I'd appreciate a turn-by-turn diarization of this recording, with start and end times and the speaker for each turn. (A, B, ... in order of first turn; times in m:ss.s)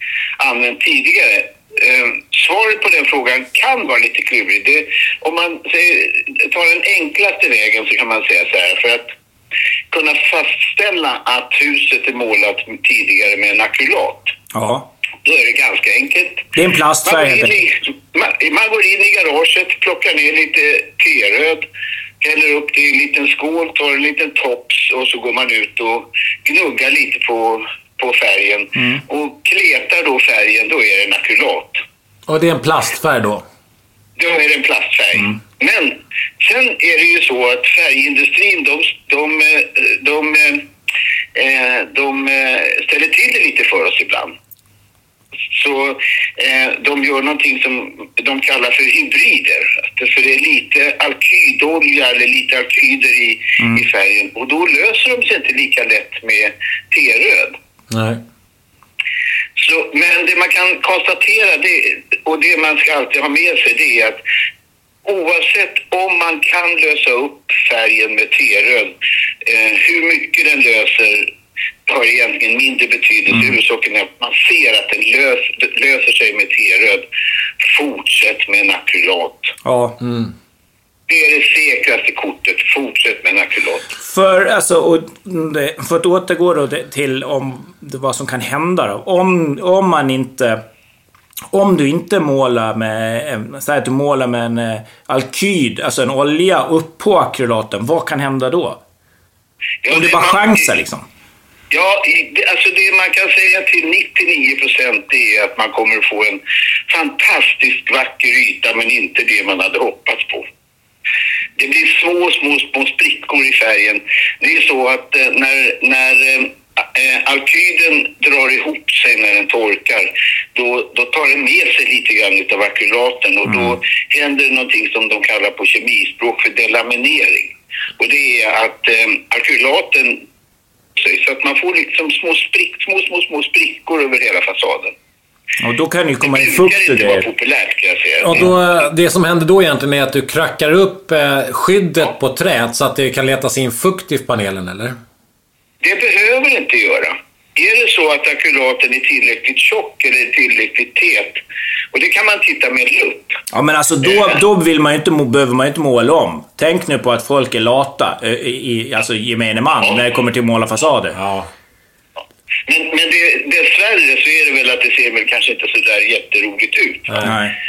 0:00.4-0:09.1 A
0:09.9-0:14.3 A
0:14.5-0:14.9 B
0:15.2-0:16.5 A
0:16.5-0:17.6 B
0:17.0-0:21.6 A
0:22.2-0:31.8 A
0:32.3-0:33.4 C
0:34.2-0:40.7 A
0:41.3-0:44.3 A
0:45.5-0:57.6 A
0:57.9-0:58.2 C
0:59.6-1:04.2 A
1:05.0-1:08.9 A
1:09.4-1:11.3 A
1:11.8-1:17.0 A
1:17.6-1:19.5 A
1:19.6-1:20.0 B
1:20.0-1:20.3 C
1:21.1-1:23.9 A
1:24.0-1:30.6 B
1:31.5-1:38.8 B
1:39.8-1:40.7 A
1:39.9-1:41.0 B
1:41.7-1:50.4 A
1:51.6-2:10.2 A
2:11.0-2:14.9 A
2:15.6-2:17.2 B
2:16.2-2:18.4 A
2:18.2-2:25.0 C
2:25.8-2:31.4 A
2:31.9-2:33.4 A
2:33.5-2:41.2 B
2:41.1-2:41.5 C
2:42.7-2:47.4 A
2:47.2-2:47.5 B